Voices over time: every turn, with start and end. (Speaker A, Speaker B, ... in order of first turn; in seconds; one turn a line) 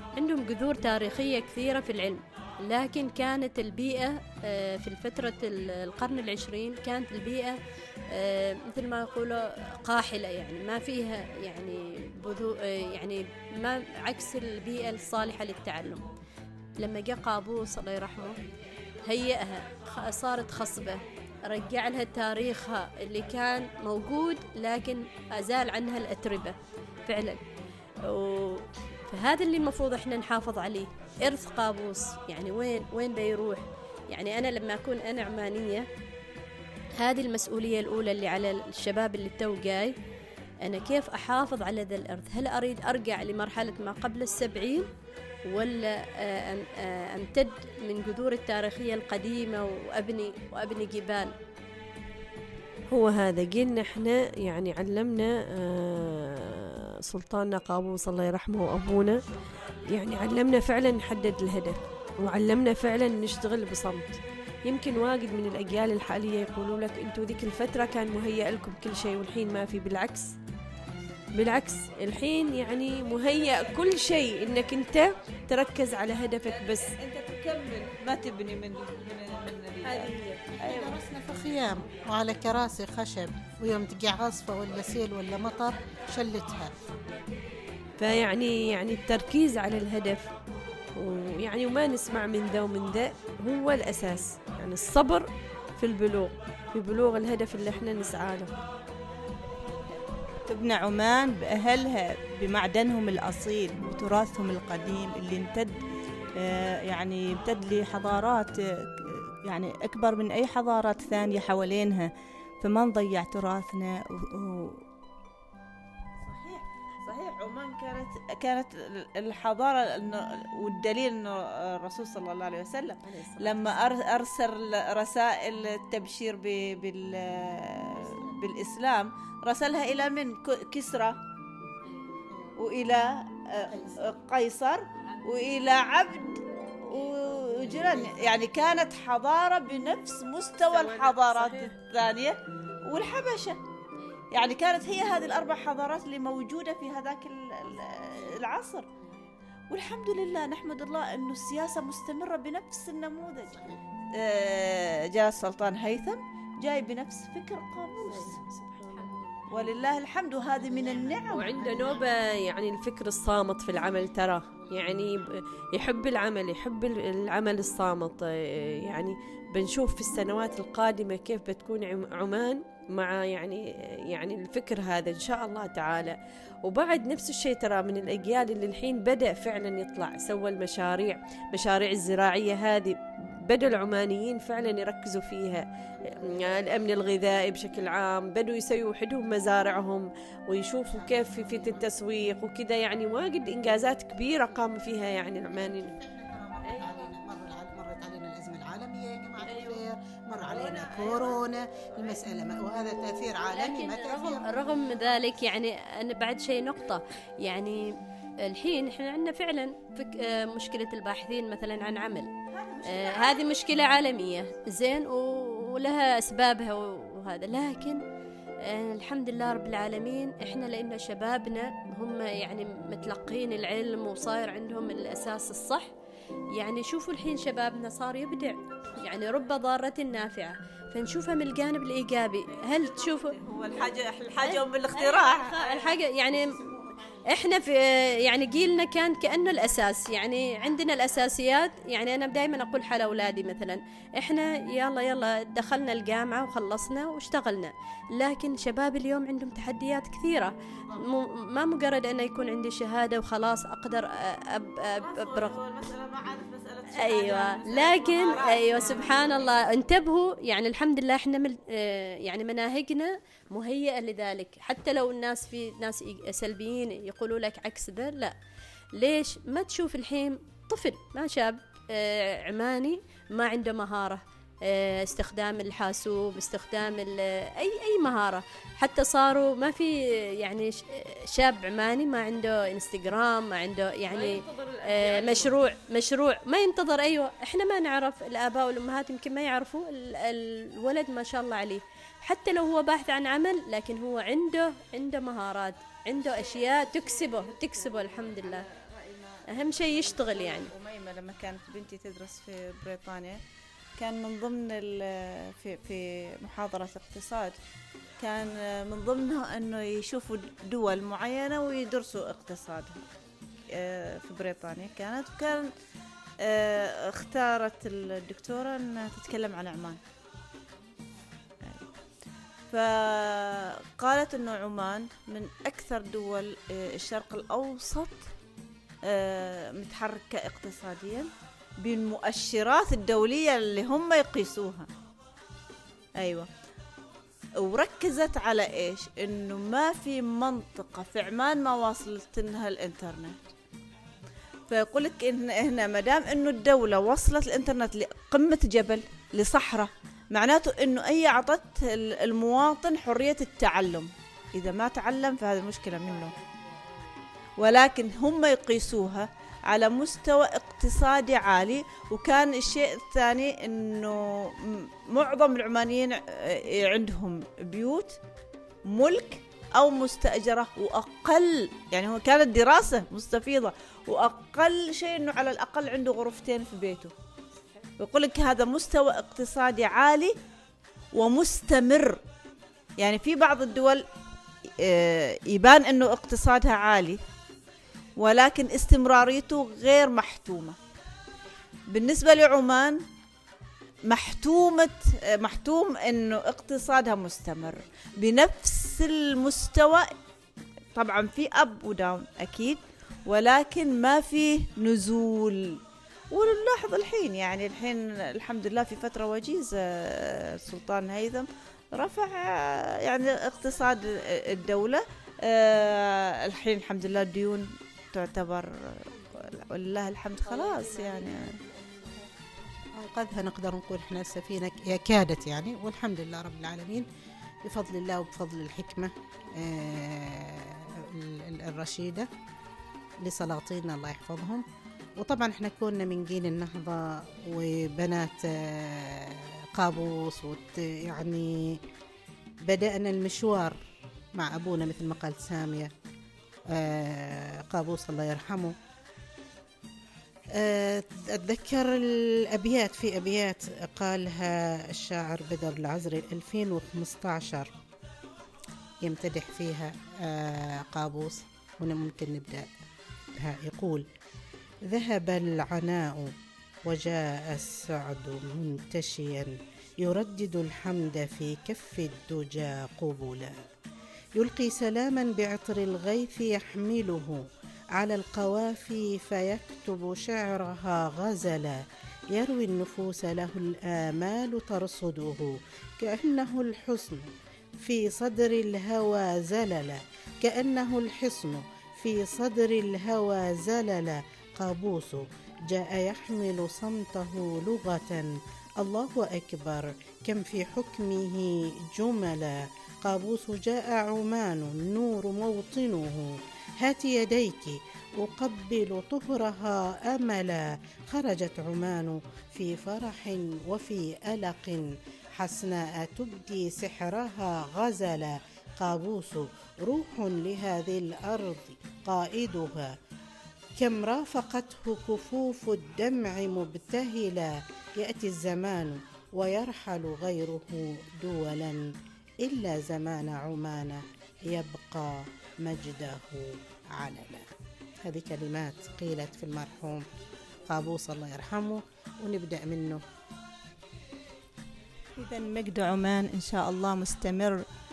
Speaker A: 0.1-7.6
Speaker A: 8.1-16.1
Speaker A: 16.8-18.4
Speaker A: 19.1-27.4
Speaker A: 28.0-35.9
Speaker A: 37.0-39.9
Speaker A: 40.6-44.9
Speaker A: 45.5-51.3
Speaker B: 52.9-59.2
Speaker B: 59.9-70.3
Speaker B: 71.3-77.0
Speaker C: 76.5-81.0
Speaker B: 79.8-80.5
Speaker D: 80.5-86.8
Speaker B: 88.0-90.3
Speaker B: 91.0-98.5
Speaker E: 100.5-105.8
Speaker E: 106.4-114.8
Speaker C: 116.2-131.2
Speaker A: 123.0-123.8
Speaker D: 128.0-128.3
Speaker C: 132.6-143.6
Speaker D: 133.7-133.9
Speaker B: 140.7-141.7
Speaker C: 144.3-148.9
Speaker C: 149.7-158.4
Speaker D: 153.5-153.8
Speaker B: 158.1-159.3
Speaker C: 159.5-162.0
Speaker D: 160.6-162.0
Speaker B: 161.3-195.9
Speaker D: 164.7-165.2
Speaker D: 185.9-186.9
Speaker D: 190.9-191.9
Speaker D: 195.6-204.6
Speaker B: 196.7-197.1
Speaker C: 200.4-202.2
Speaker A: 203.5-212.3
Speaker C: 212.5-213.8
Speaker A: 212.9-218.0
Speaker A: 218.6-225.9
Speaker A: 226.5-233.4
Speaker C: 232.5-236.0
Speaker A: 234.3-236.6
Speaker D: 236.3-237.3
Speaker A: 237.3-255.6
Speaker C: 255.0-259.7
Speaker A: 256.9-268.4
Speaker A: 268.9-298.6
Speaker B: 284.1-285.6
Speaker C: 296.2-303.4
Speaker A: 299.5-300.7
Speaker C: 304.0-307.6
Speaker C: 308.2-313.0
Speaker C: 313.7-315.7
Speaker C: 316.4-320.0
Speaker C: 322.7-328.2
Speaker C: 329.0-334.9
Speaker C: 336.2-336.5
Speaker C: 337.6-343.4
Speaker C: 344.7-356.4
Speaker C: 357.6-368.2
Speaker C: 368.9-377.1
Speaker C: 378.0-380.4
Speaker C: 381.1-382.2
Speaker C: 383.0-384.1
Speaker C: 384.8-387.2
Speaker C: 388.2-390.8
Speaker C: 391.9-393.0
Speaker C: 394.1-400.1
Speaker C: 401.0-405.8
Speaker C: 406.3-421.6
Speaker B: 420.5-421.6
Speaker D: 422.9-427.1
Speaker D: 427.6-432.3
Speaker D: 433.2-434.6
Speaker D: 435.2-441.8
Speaker D: 442.6-443.8
Speaker D: 444.4-445.9
Speaker D: 446.7-448.8
Speaker D: 450.5-457.7
Speaker D: 459.0-462.7
Speaker D: 463.4-464.1
Speaker D: 464.9-466.3
Speaker D: 466.9-473.6
Speaker D: 474.4-523.0
Speaker D: 523.8-537.5
Speaker D: 538.0-540.1
Speaker D: 540.7-543.0
Speaker E: 545.2-547.6